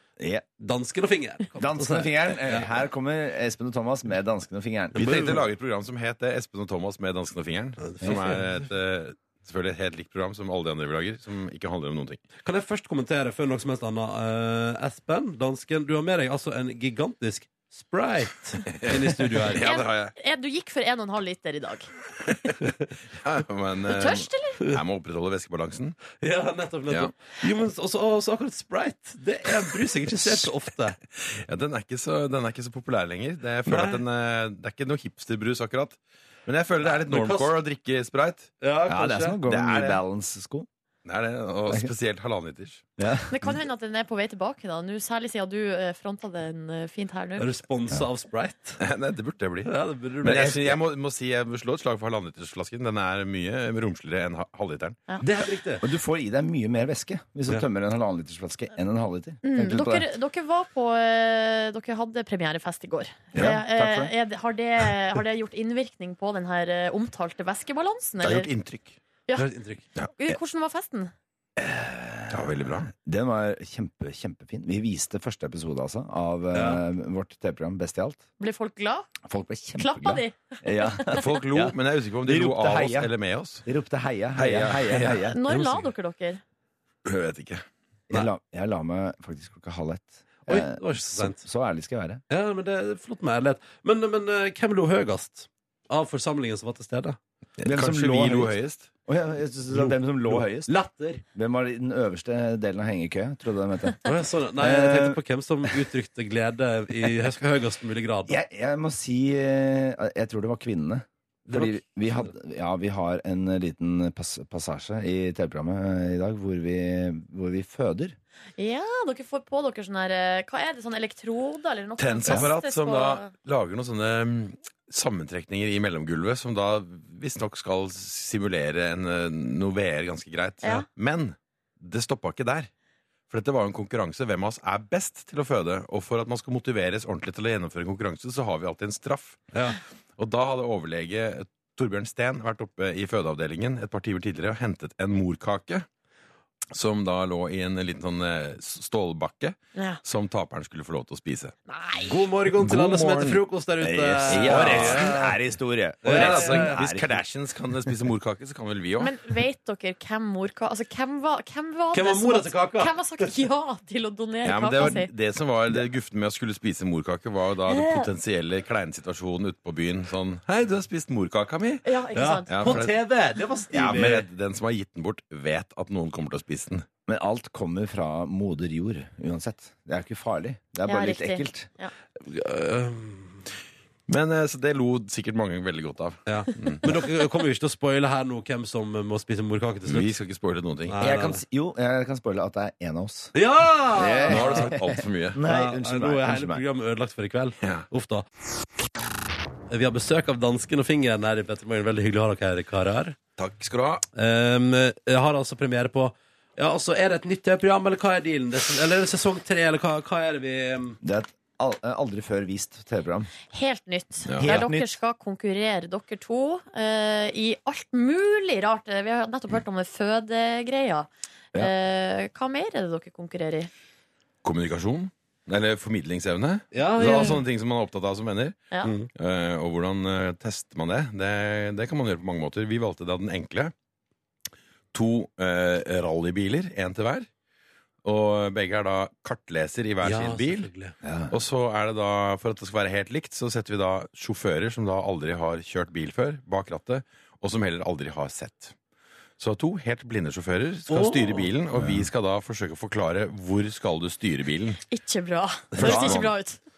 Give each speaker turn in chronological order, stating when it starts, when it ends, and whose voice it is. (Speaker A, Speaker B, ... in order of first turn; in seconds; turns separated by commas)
Speaker A: 0.2-0.5, Speaker B: 0.6-2.7, Speaker A: 1.6-5.3, Speaker B: 5.0-5.4, Speaker C: 5.0-12.2, Speaker B: 7.8-8.4, Speaker B: 12.4-19.7, Speaker C: 18.7-20.1, Speaker D: 19.6-21.9, Speaker C: 23.2-26.0, Speaker D: 23.9-24.6, Speaker B: 26.2-31.0, Speaker C: 31.2-38.5, Speaker B: 33.7-34.0, Speaker B: 36.8-37.5, Speaker B: 38.6-39.4, Speaker A: 38.9-40.7, Speaker C: 39.5-40.0, Speaker C: 41.0-42.9, Speaker A: 43.0-43.5, Speaker D: 43.3-47.5, Speaker B: 47.4-48.8, Speaker C: 48.8-55.0, Speaker B: 49.6-50.7, Speaker B: 55.2-55.9, Speaker A: 55.8-60.1, Speaker D: 59.4-68.5, Speaker A: 63.3-64.1, Speaker C: 68.2-69.0, Speaker B: 69.4-69.8, Speaker D: 70.1-71.1, Speaker A: 71.6-78.2, Speaker C: 72.3-72.9, Speaker B: 76.5-76.8, Speaker D: 78.4-79.2, Speaker A: 79.3-83.1, Speaker D: 79.8-81.3, Speaker C: 81.1-83.7, Speaker A: 83.7-85.4, Speaker C: 84.3-85.2, Speaker D: 85.2-86.4, Speaker B: 85.5-85.9, Speaker C: 87.0-87.7, Speaker A: 88.1-92.2, Speaker B: 90.5-91.4, Speaker B: 92.3-97.2, Speaker C: 97.6-98.9, Speaker A: 97.7-100.7, Speaker B: 99.7-101.2, Speaker A: 101.3-104.1, Speaker B: 104.0-108.4, Speaker A: 104.6-105.2, Speaker A: 108.3-118.2, Speaker B: 111.5-112.3, Speaker D: 118.6-123.3, Speaker C: 122.0-132.7, Speaker D: 130.6-130.9, Speaker C: 133.3-139.5, Speaker C: 140.2-145.9, Speaker C: 146.7-151.6, Speaker D: 149.8-150.0, Speaker D: 151.7-152.2, Speaker B: 152.1-155.4, Speaker C: 152.6-153.4, Speaker A: 153.8-157.2, Speaker C: 154.3-155.2, Speaker B: 156.0-156.8, Speaker C: 156.0-159.2, Speaker D: 159.0-165.1, Speaker B: 161.9-163.3, Speaker C: 164.4-171.8, Speaker D: 167.7-168.1, Speaker D: 171.8-172.8, Speaker B: 172.2-174.3, Speaker C: 172.5-173.0, Speaker C: 173.7-176.9, Speaker A: 177.1-181.7, Speaker D: 180.8-181.9, Speaker B: 182.2-183.4, Speaker C: 184.1-186.9, Speaker B: 186.3-190.1, Speaker C: 189.8-191.0, Speaker B: 190.9-191.4, Speaker A: 191.0-193.3, Speaker B: 193.3-194.7, Speaker A: 193.9-196.6, Speaker C: 194.2-195.4, Speaker B: 195.4-198.2, Speaker C: 197.6-197.9, Speaker B: 199.7-203.2, Speaker C: 203.4-204.0, Speaker B: 204.1-211.0, Speaker A: 211.0-213.3, Speaker D: 213.5-223.7, Speaker C: 214.3-214.7, Speaker A: 214.4-214.9, Speaker C: 224.4-233.7, Speaker B: 226.7-227.4, Speaker D: 227.1-227.4, Speaker B: 228.8-229.1, Speaker C: 234.9-237.3, Speaker C: 238.0-240.7, Speaker B: 240.0-240.9, Speaker A: 241.0-241.3, Speaker C: 241.3-248.8, Speaker C: 249.4-254.8, Speaker B: 250.9-251.5, Speaker A: 251.7-252.1, Speaker D: 254.9-256.6, Speaker C: 255.8-256.3, Speaker A: 255.8-256.2